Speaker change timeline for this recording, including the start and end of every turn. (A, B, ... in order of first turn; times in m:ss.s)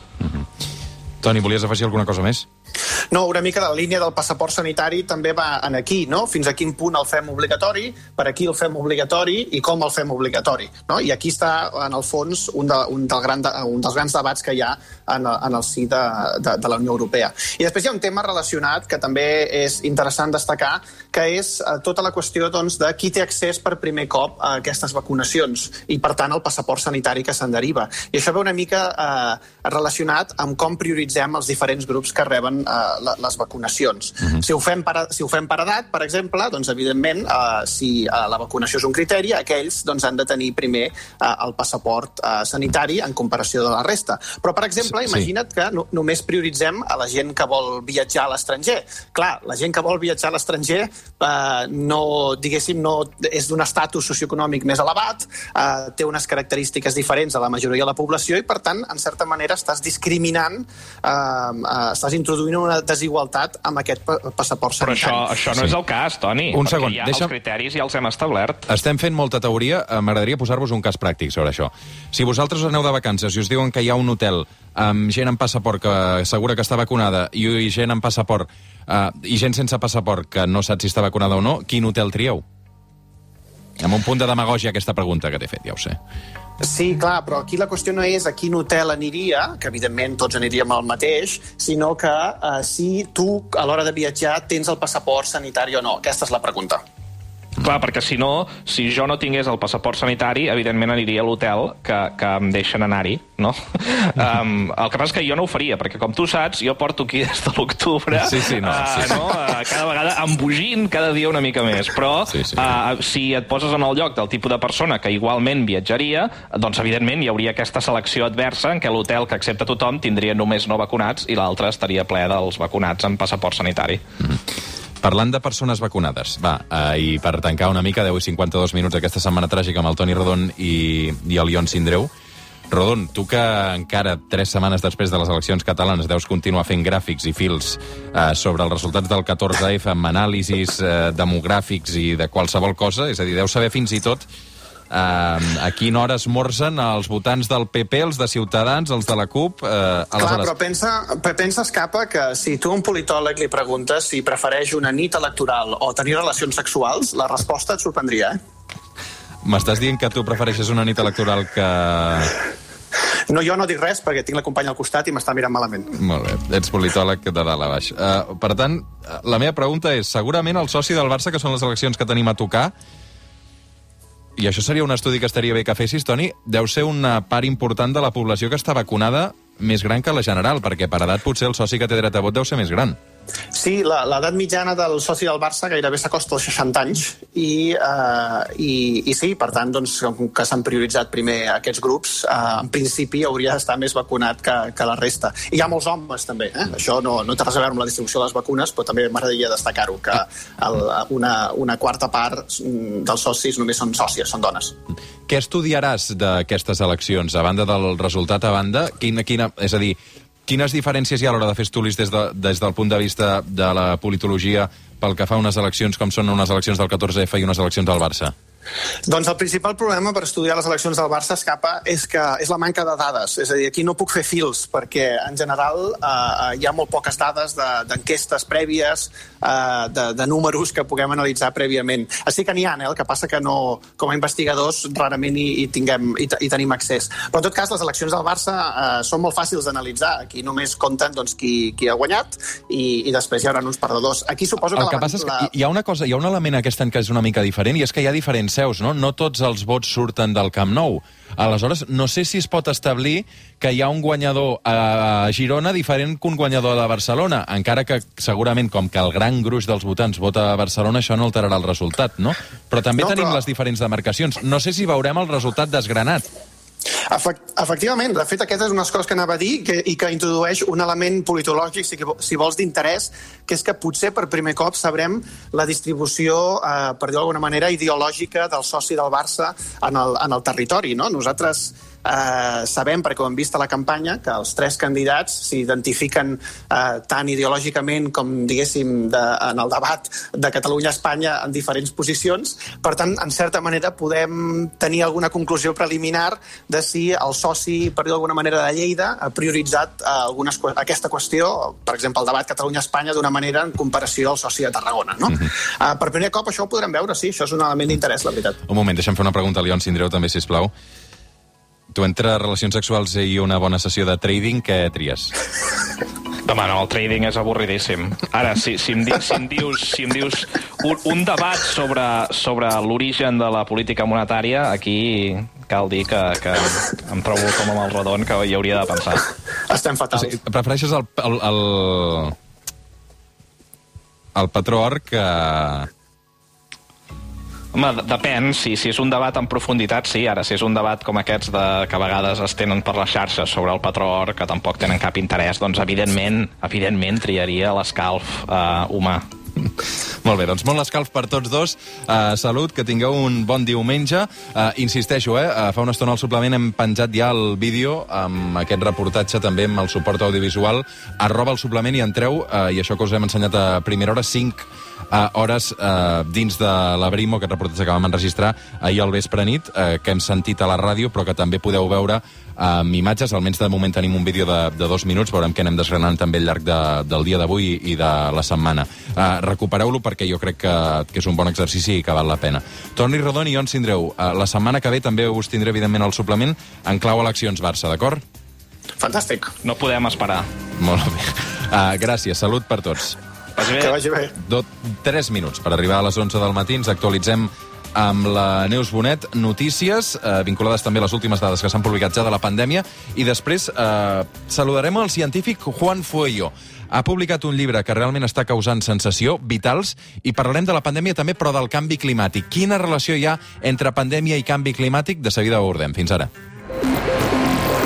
0:00.2-0:00.5 A
0:01.2-0:02.5 A
0:03.1-1:05.3 B
1:04.8-1:08.6 C
1:06.5-1:07.3 A
1:08.7-1:22.4 A
1:23.8-1:26.0 A
1:26.6-1:36.8 B
1:37.6-2:04.0 C
1:48.1-1:49.2 A
1:52.3-1:52.7 A
2:05.0-2:12.1 A
2:12.7-2:24.2 A
2:24.9-2:30.5 A
2:30.2-2:38.4 B
2:39.4-2:42.4 A
2:43.3-2:45.9 B
2:46.0-2:52.7 A
2:54.4-3:03.0 A
3:03.5-3:24.8 B
3:25.3-3:38.3 A
3:39.1-4:05.5 B
4:04.8-4:26.3 A
4:23.0-4:23.4 B
4:27.1-5:08.6 B
5:08.7-5:10.7 A
5:11.9-5:15.3 A
5:16.4-5:29.3 C
5:29.7-5:30.4 B
5:30.1-5:32.4 A
5:34.4-5:35.9 A
5:37.7-5:49.2 C
5:50.2-6:28.2 A
6:29.0-6:29.5 B
6:29.6-6:30.5 C
6:30.8-6:33.2 A
6:33.6-6:34.0 C
6:33.8-6:34.4 B
6:34.4-6:56.3 A